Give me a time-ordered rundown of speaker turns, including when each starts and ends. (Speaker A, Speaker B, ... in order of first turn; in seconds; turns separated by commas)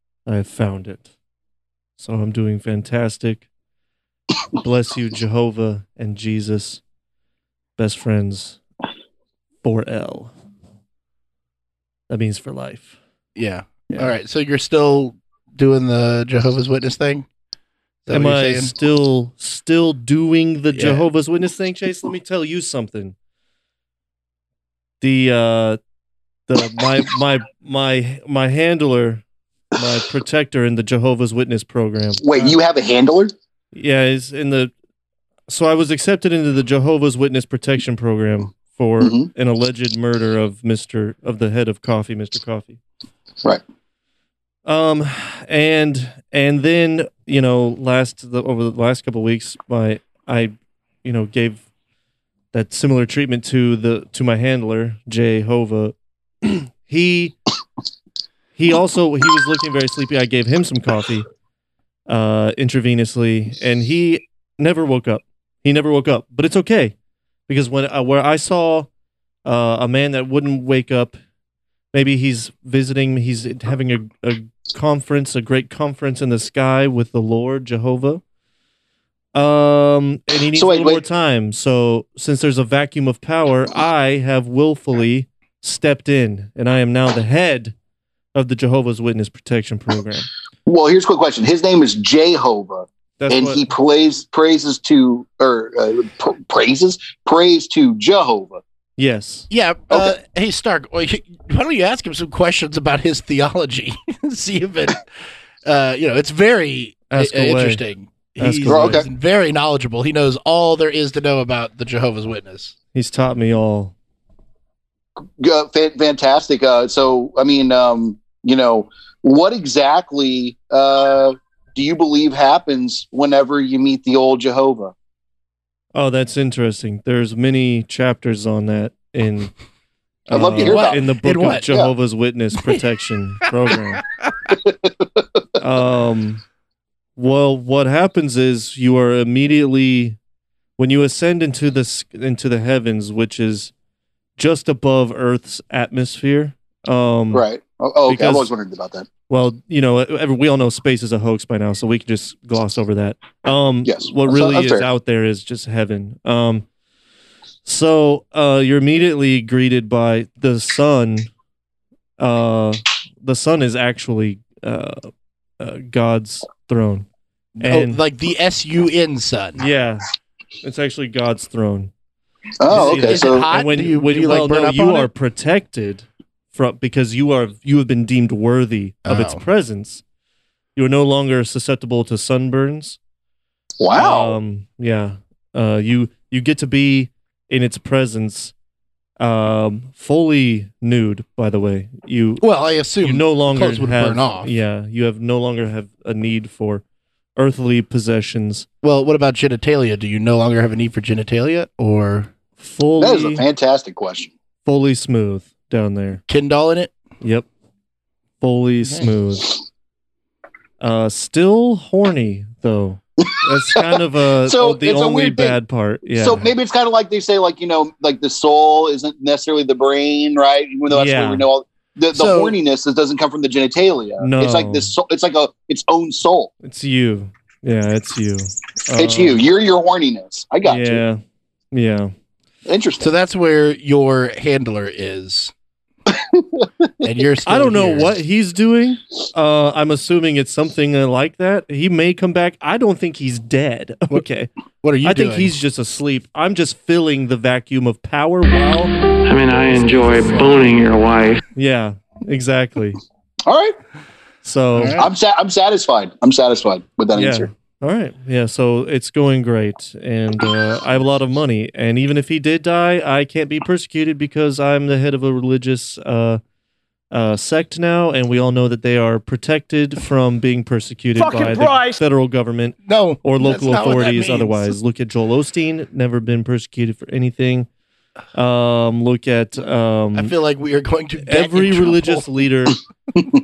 Speaker A: 0.3-1.1, Speaker A: 2.0-3.5, Speaker A: 4.6-6.8, Speaker A: 7.8-8.6, Speaker A: 9.6-10.3, Speaker A: 12.1-12.9, Speaker B: 13.4-17.3, Speaker B: 18.1-18.7, Speaker A: 18.1-23.1, Speaker B: 20.8-21.1, Speaker A: 25.0-25.8, Speaker A: 26.5-29.2, Speaker A: 29.8-32.6, Speaker C: 32.2-33.3, Speaker A: 33.7-34.7, Speaker A: 35.5-42.8, Speaker C: 39.0-39.3, Speaker A: 44.6-50.5, Speaker A: 51.0-51.6, Speaker A: 52.5-57.4, Speaker A: 58.6-61.3, Speaker A: 62.1-66.9, Speaker A: 67.5-68.9, Speaker A: 69.5-71.2, Speaker A: 71.9-78.2, Speaker A: 79.3-87.7, Speaker C: 80.5-81.0, Speaker A: 88.3-90.3, Speaker C: 90.7-98.6, Speaker A: 93.2-93.7, Speaker A: 99.0-99.5, Speaker B: 99.5-105.1, Speaker B: 105.7-112.7, Speaker A: 107.1-107.8, Speaker A: 108.4-109.0, Speaker C: 108.7-109.1, Speaker A: 112.9-113.9, Speaker C: 115.4-124.9, Speaker A: 126.0-129.5, Speaker A: 130.3-134.1, Speaker C: 130.3-131.0, Speaker B: 130.4-131.7, Speaker C: 134.6-135.2, Speaker A: 135.6-136.4, Speaker A: 137.2-140.2, Speaker A: 140.8-143.7, Speaker A: 144.4-147.4, Speaker C: 147.3-149.1, Speaker A: 148.1-148.5, Speaker A: 149.3-156.7, Speaker C: 153.8-154.9, Speaker A: 157.7-161.3, Speaker A: 162.2-167.1, Speaker B: 167.6-169.7, Speaker A: 167.6-168.0, Speaker A: 169.6-171.9, Speaker C: 172.6-173.5, Speaker A: 172.7-180.0, Speaker B: 172.7-175.1, Speaker B: 179.1-179.4, Speaker A: 180.8-183.0, Speaker C: 183.8-184.4, Speaker A: 183.9-188.5, Speaker A: 189.2-192.4, Speaker B: 192.4-194.5, Speaker A: 193.0-196.8, Speaker A: 197.4-198.7, Speaker B: 198.8-202.3, Speaker A: 202.6-203.4, Speaker C: 203.0-204.3, Speaker A: 204.7-206.2, Speaker B: 206.3-206.9, Speaker A: 207.2-207.5, Speaker A: 208.4-209.6, Speaker A: 210.8-216.5, Speaker C: 214.4-215.6, Speaker C: 216.2-226.5, Speaker A: 220.9-221.5, Speaker B: 222.1-222.6, Speaker A: 224.2-224.9, Speaker A: 226.6-229.4, Speaker C: 229.0-231.0, Speaker A: 230.7-231.2, Speaker A: 231.7-232.1, Speaker C: 232.7-233.1, Speaker B: 233.0-235.5, Speaker C: 236.3-236.7, Speaker B: 237.0-238.1, Speaker A: 237.5-244.5, Speaker B: 244.8-245.5, Speaker A: 245.0-248.9, Speaker D: 249.3-251.4, Speaker B: 249.7-250.8, Speaker A: 251.6-253.0, Speaker C: 253.5-253.8, Speaker A: 254.4-255.0, Speaker B: 254.7-255.1, Speaker C: 255.0-257.5, Speaker A: 257.1-266.4, Speaker A: 267.1-277.7, Speaker B: 272.9-274.8, Speaker A: 278.3-280.4, Speaker B: 280.1-282.4, Speaker A: 281.2-282.8